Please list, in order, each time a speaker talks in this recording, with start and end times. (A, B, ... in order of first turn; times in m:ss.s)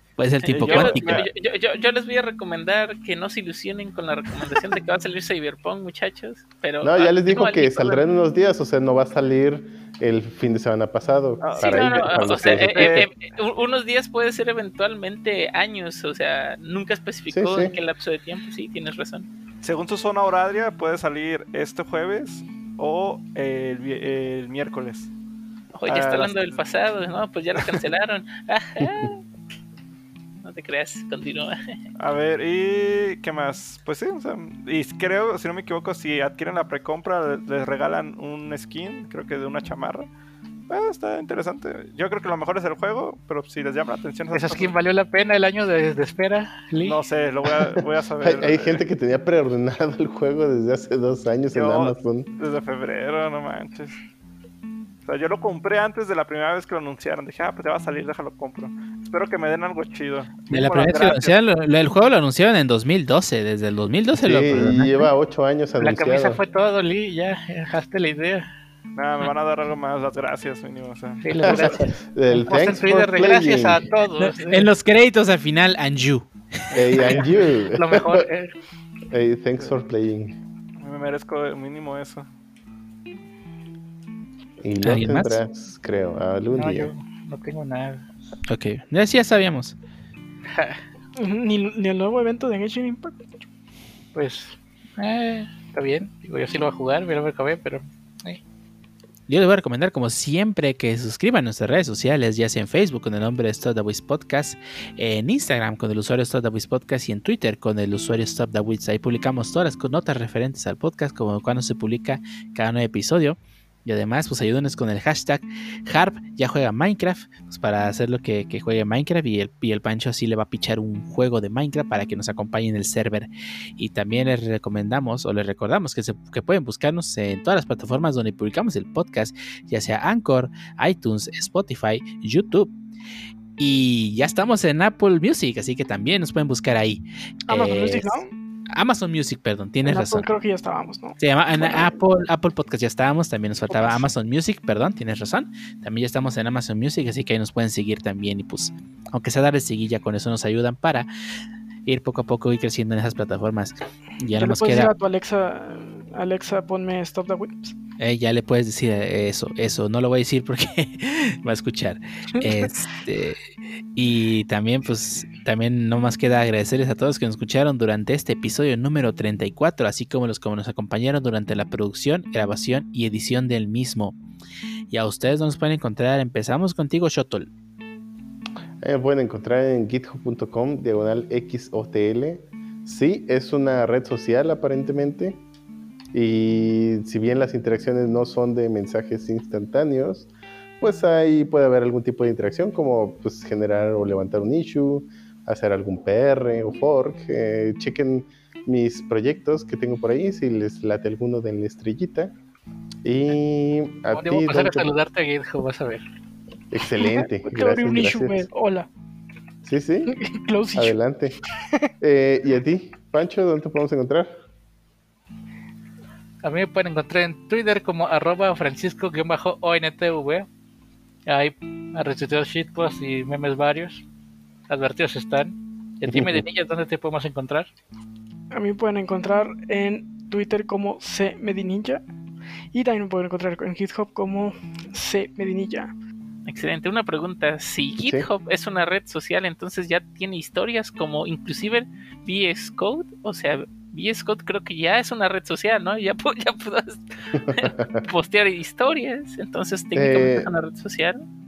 0:00.2-0:01.2 A
0:00.4-0:08.0 B
0:00.5-0:01.3 C
0:06.8-0:13.1 D
0:11.4-0:13.1 C
0:11.6-0:19.3 B
0:17.3-0:17.8 D
0:19.6-0:25.1 C
0:25.7-0:29.2 B
0:25.8-0:26.6 C
0:30.4-0:31.8 B
0:32.0-0:40.1 C
0:40.7-0:44.7 C
0:44.3-0:47.0 E
0:46.8-0:48.8 C
0:48.2-0:52.3 D
0:51.5-0:54.0 C
0:55.0-1:01.4 C
1:00.5-1:04.9 A
1:04.2-1:06.4 D
1:05.8-1:08.5 E
1:09.0-1:11.6 C
1:11.2-1:14.7 E
1:11.4-1:13.8 D
1:14.2-1:17.0 A
1:16.7-1:18.3 D
1:16.9-1:18.5 E
1:19.1-1:20.4 D
1:20.8-1:22.3 C
1:24.6-1:26.9 D
1:24.8-1:25.4 A
1:26.5-1:28.0 E
1:28.5-1:29.8 A
1:30.5-1:30.8 E
1:31.2-1:33.3 F
1:34.1-1:38.4 E
1:39.3-2:12.7 A
2:13.6-2:20.3 A
2:17.5-2:18.3 F
2:19.8-2:21.9 F
2:21.2-2:31.1 A
2:23.7-2:24.0 F
2:31.8-2:34.9 A
2:34.3-2:37.8 F
2:38.0-2:43.4 A
2:42.4-2:42.7 F
2:43.9-2:54.2 A
2:54.9-2:57.5 A
2:58.8-3:05.4 D
3:06.1-3:10.3 D
3:10.8-3:22.3 D
3:23.0-3:24.9 D
3:24.1-3:26.0 E
3:26.7-3:28.5 D
3:26.9-3:28.9 F
3:29.6-3:30.1 D
3:30.1-3:30.9 F
3:30.7-3:31.4 D
3:32.0-3:34.4 D
3:36.4-3:40.5 E
3:41.2-3:44.0 E
3:44.7-3:47.7 E
3:46.0-3:46.4 D
3:48.5-3:52.0 F
3:52.7-3:55.9 F
3:56.4-4:11.2 B
3:58.0-3:58.3 D
4:07.4-4:08.0 D
4:09.9-4:10.5 D